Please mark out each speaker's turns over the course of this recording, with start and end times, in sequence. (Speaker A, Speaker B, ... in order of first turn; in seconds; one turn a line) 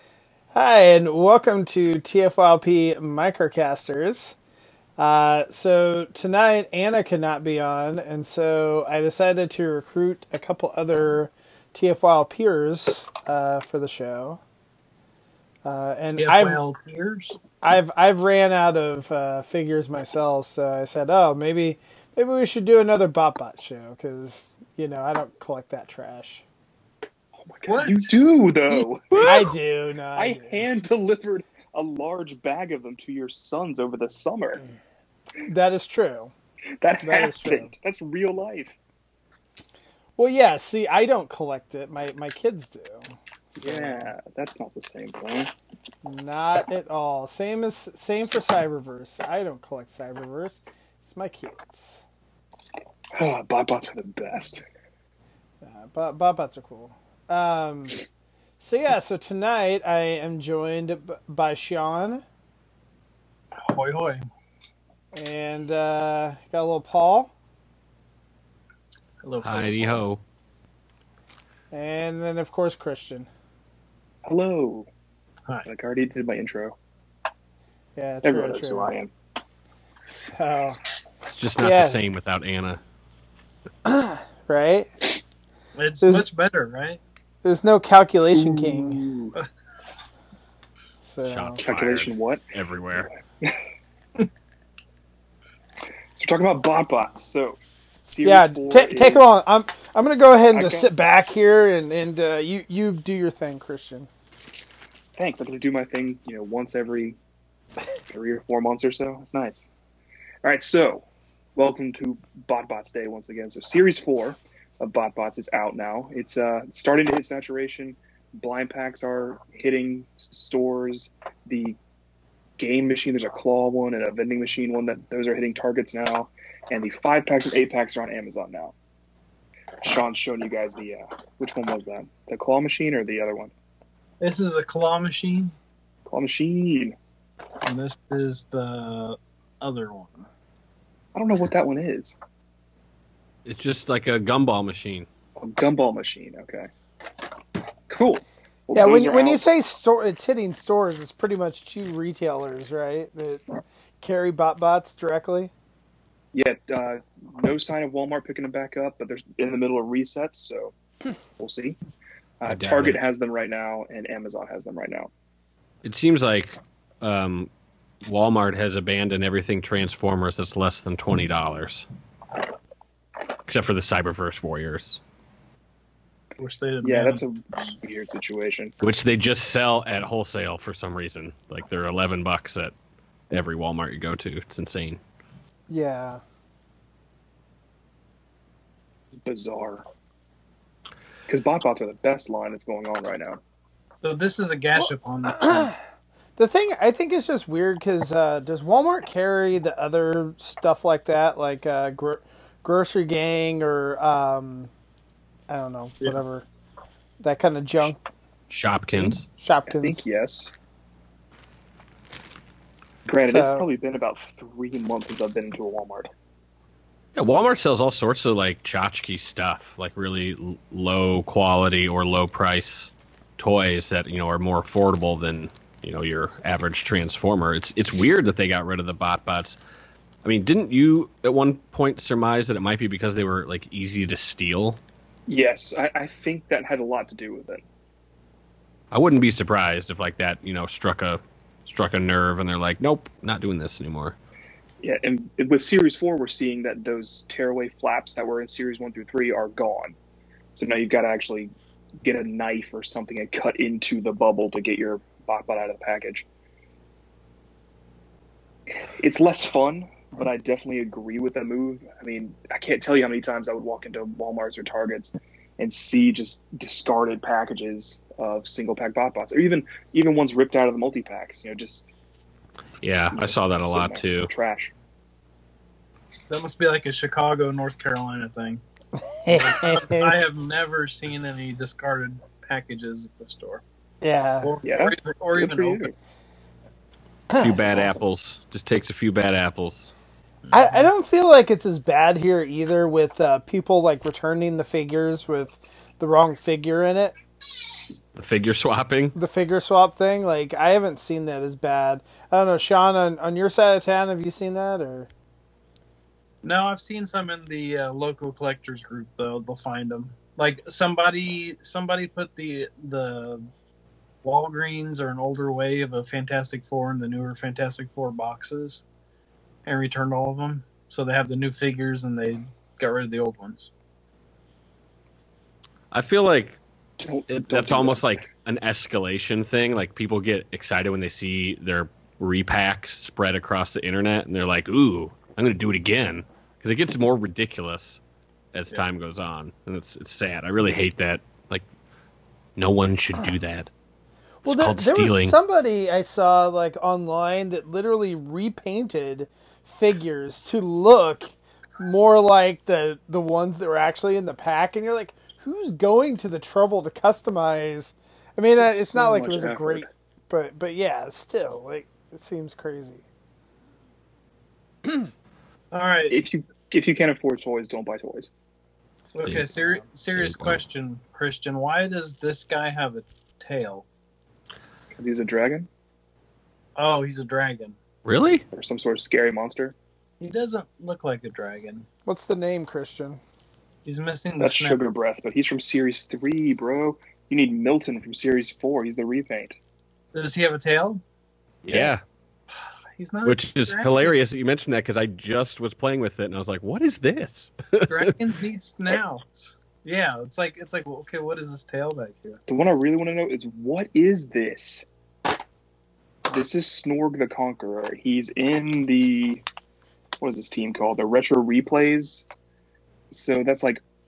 Speaker A: 0.5-4.4
Speaker A: 5.0-14.4
Speaker A: 15.7-16.6
Speaker B: 16.1-17.4
Speaker A: 17.6-26.4
Speaker C: 27.4-29.4
Speaker B: 27.6-28.2
Speaker D: 29.1-29.5
Speaker A: 29.2-30.6
Speaker C: 30.2-34.6
Speaker A: 35.5-36.3
Speaker C: 36.8-38.8
Speaker A: 37.0-37.7
Speaker A: 40.2-44.1
Speaker C: 43.6-45.5
Speaker A: 46.0-52.0
Speaker C: 53.1-54.6
Speaker A: 55.6-58.0
Speaker A: 58.6-62.2
Speaker B: 63.6-64.2
Speaker A: 65.1-67.3
Speaker B: 69.2-70.0
Speaker D: 69.4-70.2
Speaker A: 71.7-73.3
Speaker C: 74.2-74.9
Speaker C: 75.7-76.8
Speaker A: 78.0-78.9
Speaker C: 78.2-79.1
Speaker A: 80.1-80.8
Speaker D: 81.2-82.8
Speaker A: 81.6-82.0
Speaker A: 83.8-84.9
Speaker B: 85.8-87.0
Speaker A: 87.4-89.0
Speaker C: 88.3-89.4
Speaker A: 91.0-91.6
Speaker D: 91.2-93.1
Speaker C: 91.6-92.4
Speaker C: 93.0-93.6
Speaker C: 96.2-99.4
Speaker A: 98.2-104.1
Speaker C: 100.5-100.9
Speaker C: 105.2-107.2
Speaker C: 108.1-109.7
Speaker C: 110.4-111.0
Speaker C: 111.6-121.8
Speaker C: 122.6-128.7
Speaker C: 129.8-133.5
Speaker B: 134.2-135.5
Speaker C: 136.1-136.9
Speaker B: 137.6-140.3
Speaker C: 141.1-142.2
Speaker D: 143.5-145.1
Speaker C: 145.4-146.7
Speaker C: 147.9-149.4
Speaker A: 148.7-155.5
Speaker C: 156.3-160.7
Speaker C: 161.4-161.8
Speaker C: 162.4-165.1
Speaker D: 162.5-163.0
Speaker D: 165.8-167.5
Speaker D: 168.0-171.9
Speaker D: 173.5-175.0
Speaker B: 176.4-177.2
Speaker C: 176.8-178.8
Speaker D: 178.8-182.7
Speaker D: 183.3-185.0
Speaker A: 185.7-186.2
Speaker C: 189.2-189.8
Speaker C: 191.3-193.4
Speaker B: 194.0-195.7
Speaker A: 195.4-195.8
Speaker A: 196.4-204.7
Speaker A: 205.5-206.5
Speaker A: 207.2-208.0
Speaker D: 208.5-209.3
Speaker A: 209.0-210.0
Speaker C: 209.7-210.5
Speaker C: 213.1-216.1
Speaker A: 213.2-213.7
Speaker D: 217.2-229.6
Speaker D: 230.2-234.8
Speaker C: 235.3-237.6
Speaker D: 238.9-244.2
Speaker C: 244.8-250.0
Speaker C: 250.6-251.5
Speaker C: 252.0-256.3
Speaker C: 259.0-271.9
Speaker D: 272.8-274.3
Speaker C: 273.1-274.7
Speaker B: 276.3-278.6
Speaker A: 279.0-280.2
Speaker B: 279.3-283.6
Speaker A: 284.0-284.5
Speaker B: 284.4-285.9
Speaker C: 284.6-285.9
Speaker A: 287.3-287.7
Speaker D: 287.4-289.9
Speaker C: 287.7-288.0
Speaker B: 290.4-290.9
Speaker A: 290.5-297.2
Speaker D: 298.1-299.2
Speaker A: 299.1-305.1
Speaker B: 306.4-313.5
Speaker B: 314.2-318.8
Speaker B: 319.7-323.7
Speaker D: 325.9-326.6
Speaker C: 327.0-328.3
Speaker D: 327.3-338.0
Speaker D: 338.5-341.6
Speaker D: 342.6-343.7
Speaker D: 344.4-345.4
Speaker A: 344.4-363.1
Speaker C: 358.6-359.9
Speaker B: 365.7-366.2
Speaker C: 366.1-368.3
Speaker B: 369.1-373.9
Speaker D: 369.2-370.6
Speaker C: 374.9-375.7
Speaker B: 376.8-377.8
Speaker D: 378.1-378.5
Speaker C: 378.5-379.8
Speaker B: 380.2-381.9
Speaker A: 382.1-383.2
Speaker B: 383.9-384.8
Speaker C: 384.4-389.6
Speaker B: 390.1-391.0
Speaker D: 391.6-392.0
Speaker B: 393.0-394.2
Speaker D: 393.2-398.1
Speaker B: 397.9-402.4
Speaker C: 402.5-404.9
Speaker C: 406.3-409.4
Speaker C: 410.2-412.3
Speaker C: 413.1-413.8